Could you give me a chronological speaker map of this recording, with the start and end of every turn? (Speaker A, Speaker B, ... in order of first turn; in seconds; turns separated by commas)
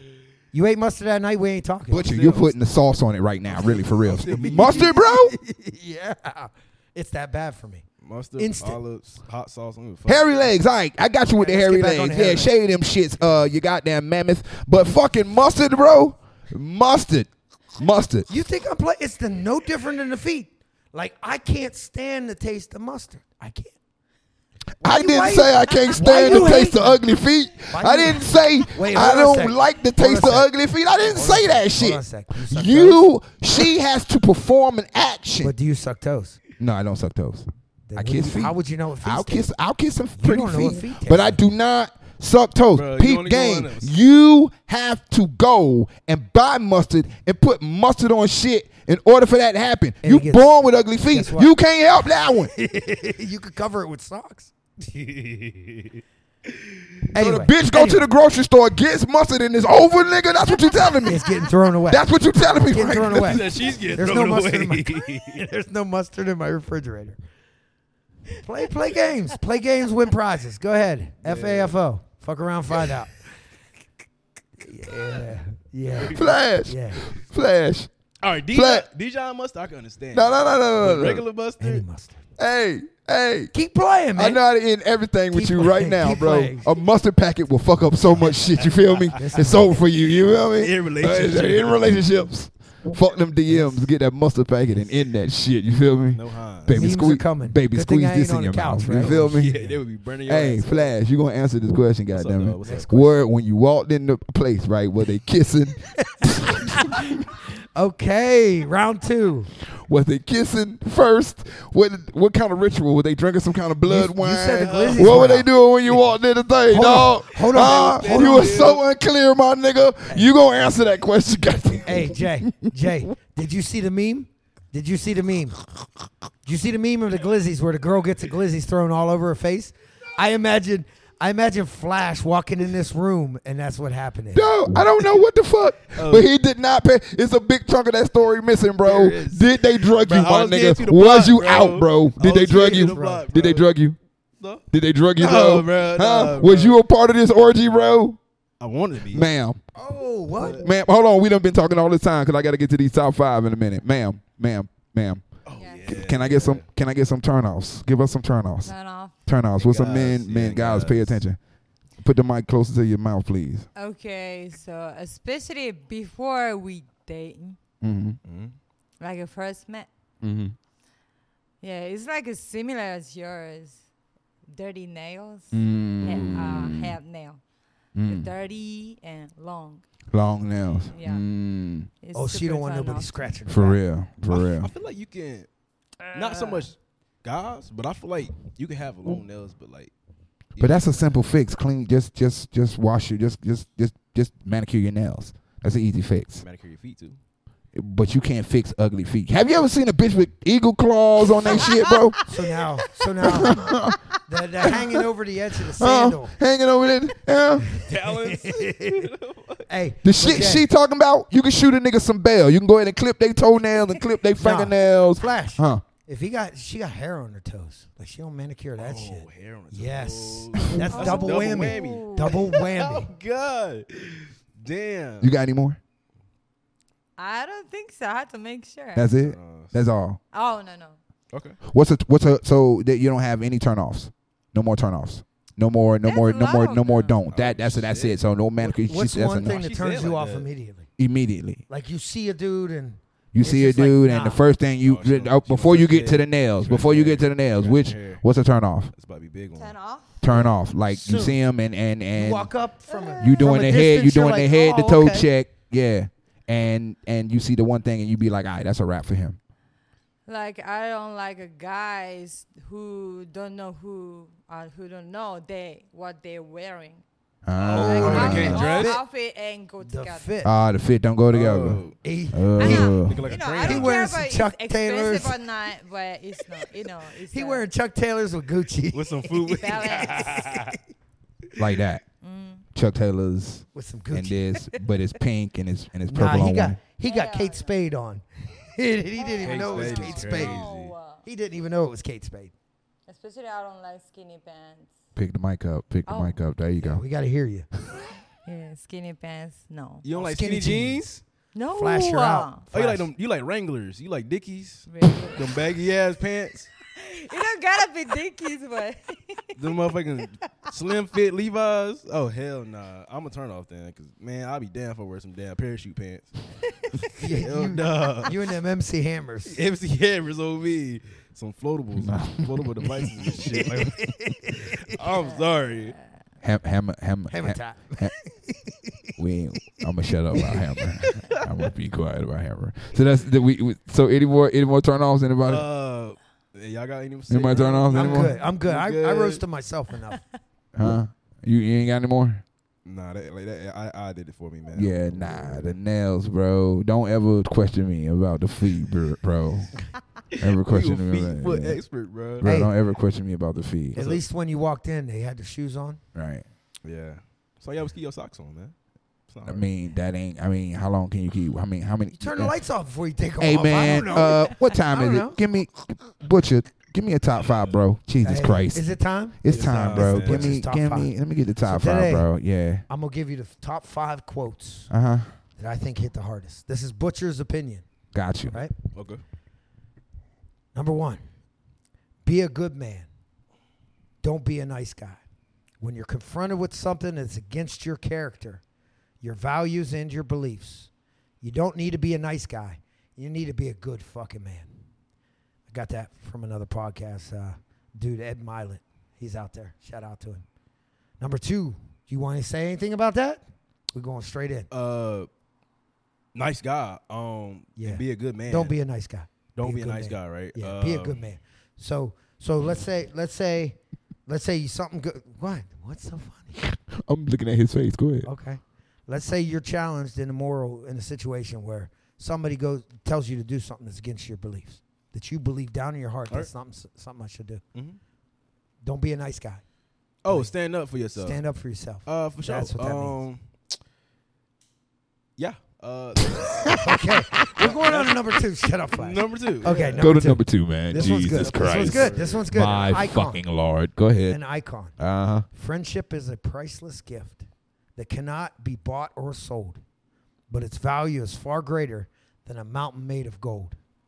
Speaker A: 0.5-2.1, Speaker B: 1.9-5.3, Speaker C: 2.0-2.5, Speaker A: 3.5-7.8, Speaker C: 3.6-4.9, Speaker C: 8.0-10.5, Speaker A: 8.4-8.8, Speaker B: 10.1-18.3, Speaker A: 11.3-12.5, Speaker A: 18.3-23.8, Speaker A: 24.8-27.0, Speaker B: 24.8-35.5, Speaker A: 27.7-33.1, Speaker A: 35.4-36.4, Speaker B: 36.6-52.5, Speaker A: 37.9-39.5, Speaker A: 40.2-41.4, Speaker C: 42.7-44.0, Speaker A: 50.0-51.5, Speaker A: 52.5-54.5, Speaker C: 54.9-56.9, Speaker A: 57.1-58.1, Speaker B: 57.1-63.6, Speaker A: 61.0-67.2, Speaker C: 63.0-65.5, Speaker A: 68.4-73.1, Speaker C: 71.2-71.8, Speaker A: 74.6-77.1, Speaker C: 75.9-76.3, Speaker B: 76.1-77.9, Speaker C: 78.2-81.8, Speaker B: 78.5-78.9, Speaker B: 80.1-81.2, Speaker A: 81.6-82.2, Speaker B: 82.4-83.5, Speaker A: 83.5-84.4, Speaker B: 84.2-99.5, Speaker A: 85.3-86.7, Speaker C: 88.2-89.2, Speaker A: 89.2-89.8, Speaker C: 90.1-92.0, Speaker A: 93.5-93.9, Speaker C: 96.1-97.0, Speaker A: 96.7-99.8, Speaker C: 98.9-101.0, Speaker B: 100.3-107.2, Speaker C: 102.1-102.9, Speaker A: 102.6-103.2, Speaker A: 106.1-107.2, Speaker A: 107.8-109.5, Speaker B: 109.8-122.7, Speaker A: 113.8-115.5, Speaker C: 114.6-115.2, Speaker A: 116.7-118.8, Speaker C: 117.6-118.8, Speaker A: 121.8-125.6, Speaker A: 126.5-134.6, Speaker B: 134.3-144.0, Speaker C: 135.9-136.2, Speaker C: 138.8-143.7, Speaker A: 142.6-143.2, Speaker C: 144.4-144.6, Speaker B: 144.7-148.2, Speaker C: 145.2-146.8, Speaker C: 148.6-149.3, Speaker B: 149.1-149.6, Speaker A: 149.8-150.6, Speaker C: 150.4-150.7, Speaker B: 150.6-155.2, Speaker C: 155.4-156.7, Speaker D: 155.6-155.8, Speaker B: 155.9-158.7, Speaker D: 158.6-159.2, Speaker B: 159.2-161.4, Speaker C: 159.6-161.2, Speaker B: 162.0-163.7, Speaker D: 163.8-167.6, Speaker B: 167.8-168.2, Speaker C: 168.2-168.6, Speaker D: 169.0-169.9, Speaker B: 170.2-170.6, Speaker D: 171.6-173.8, Speaker D: 174.5-177.4, Speaker B: 175.5-177.0, Speaker B: 178.0-178.3, Speaker D: 178.1-179.8, Speaker B: 180.1-181.9, Speaker D: 180.9-181.2, Speaker D: 182.0-183.3, Speaker A: 182.1-183.8, Speaker B: 183.5-184.7, Speaker C: 184.3-185.5, Speaker C: 186.1-189.9, Speaker D: 186.1-186.7, Speaker C: 190.6-191.2, Speaker B: 190.6-196.4, Speaker C: 196.4-197.2, Speaker B: 197.7-202.2, Speaker D: 201.4-202.2, Speaker A: 202.2-206.4, Speaker B: 203.2-204.0, Speaker B: 204.6-204.9, Speaker B: 205.8-207.7, Speaker C: 207.7-209.7, Speaker A: 207.8-209.1, Speaker A: 209.7-210.7, Speaker B: 210.0-215.8, Speaker A: 214.4-223.1, Speaker C: 218.8-225.3, Speaker D: 220.9-222.5, Speaker B: 225.2-225.8, Speaker D: 227.2-229.1, Speaker B: 228.9-230.2, Speaker C: 229.2-229.8, Speaker D: 230.3-231.0, Speaker C: 231.3-231.6, Speaker B: 231.7-239.6, Speaker D: 236.1-237.2, Speaker C: 237.3-238.2, Speaker A: 238.6-240.9, Speaker C: 239.4-240.5, Speaker B: 241.0-241.6, Speaker A: 241.7-244.4, Speaker B: 243.3-248.9, Speaker C: 244.8-248.2, Speaker C: 248.9-249.8, Speaker D: 249.6-250.2, Speaker B: 250.2-252.5, Speaker A: 250.9-251.4, Speaker A: 252.2-255.3, Speaker D: 252.9-253.4, Speaker B: 253.2-259.4, Speaker D: 260.3-267.0, Speaker B: 267.4-268.6, Speaker C: 267.6-269.0, Speaker A: 267.6-269.0, Speaker D: 267.7-270.3, Speaker A: 269.8-270.5, Speaker B: 270.4-271.8, Speaker C: 271.3-272.0, Speaker A: 272.0-272.9, Speaker B: 272.3-273.2, Speaker D: 272.6-277.7, Speaker C: 272.6-274.0, Speaker A: 273.6-275.4, Speaker A: 277.3-280.8, Speaker C: 278.9-280.8, Speaker D: 279.5-280.5, Speaker B: 281.6-282.0, Speaker D: 282.2-282.6, Speaker B: 282.8-286.8, Speaker A: 283.7-284.4, Speaker A: 286.1-290.6, Speaker D: 287.0-287.7, Speaker D: 289.2-291.2, Speaker C: 289.4-290.9, Speaker A: 291.2-292.5, Speaker D: 293.1-294.9, Speaker B: 295.2-297.0, Speaker D: 296.1-296.4, Speaker A: 296.8-297.7, Speaker D: 298.4-300.1, Speaker C: 300.0-301.2, Speaker A: 300.1-301.2, Speaker D: 301.5-302.6, Speaker A: 301.7-303.1, Speaker C: 302.7-306.7, Speaker D: 304.9-305.6, Speaker D: 306.9-309.5, Speaker C: 309.6-316.3, Speaker C: 317.0-318.3, Speaker A: 317.2-319.6, Speaker C: 319.5-325.9, Speaker B: 322.0-322.9, Speaker A: 323.8-324.9, Speaker D: 325.1-325.4, Speaker B: 326.4-328.1, Speaker A: 327.3-329.1, Speaker B: 329.2-335.7, Speaker A: 330.3-330.7, Speaker C: 331.0-331.7, Speaker C: 335.5-339.4, Speaker B: 337.3-338.4, Speaker A: 337.9-340.2, Speaker B: 340.8-342.4, Speaker C: 342.9-345.7, Speaker B: 344.7-349.7, Speaker C: 350.3-352.5, Speaker B: 350.4-351.8, Speaker B: 352.4-354.0, Speaker A: 352.4-352.7, Speaker C: 354.0-354.2, Speaker A: 354.0-356.0, Speaker B: 356.1-356.4, Speaker C: 356.9-358.7, Speaker C: 359.3-359.7, Speaker B: 359.4-362.5, Speaker A: 362.1-365.4, Speaker B: 363.4-368.9, Speaker A: 368.2-371.1, Speaker B: 369.4-372.8, Speaker C: 369.5-370.6, Speaker A: 371.6-372.3, Speaker A: 372.9-374.9, Speaker B: 374.9-375.3, Speaker A: 375.6-377.9, Speaker B: 378.1-378.5, Speaker C: 378.5-379.2, Speaker A: 380.8-381.2, Speaker A: 382.2-383.1, Speaker A: 384.2-385.2, Speaker A: 385.8-388.6, Speaker A: 389.2-390.9, Speaker A: 391.4-394.7, Speaker A: 395.7-400.4, Speaker A: 401.2-403.4, Speaker A: 403.9-404.7, Speaker C: 404.7-405.3, Speaker C: 406.4-408.8, Speaker A: 407.8-416.6, Speaker C: 409.6-411.2, Speaker B: 416.6-418.3, Speaker A: 418.2-427.6, Speaker A: 428.8-429.6, Speaker C: 430.2-431.4, Speaker A: 430.3-430.5, Speaker A: 431.2-433.2, Speaker C: 432.1-433.4, Speaker C: 435.4-436.8, Speaker A: 436.7-443.4, Speaker B: 437.4-437.7, Speaker C: 437.5-438.3, Speaker C: 438.9-440.1, Speaker B: 440.0-444.4, Speaker C: 440.9-442.9, Speaker A: 444.3-444.9, Speaker B: 445.0-445.5, Speaker A: 445.5-447.4, Speaker A: 448.0-449.8, Speaker A: 450.5-453.8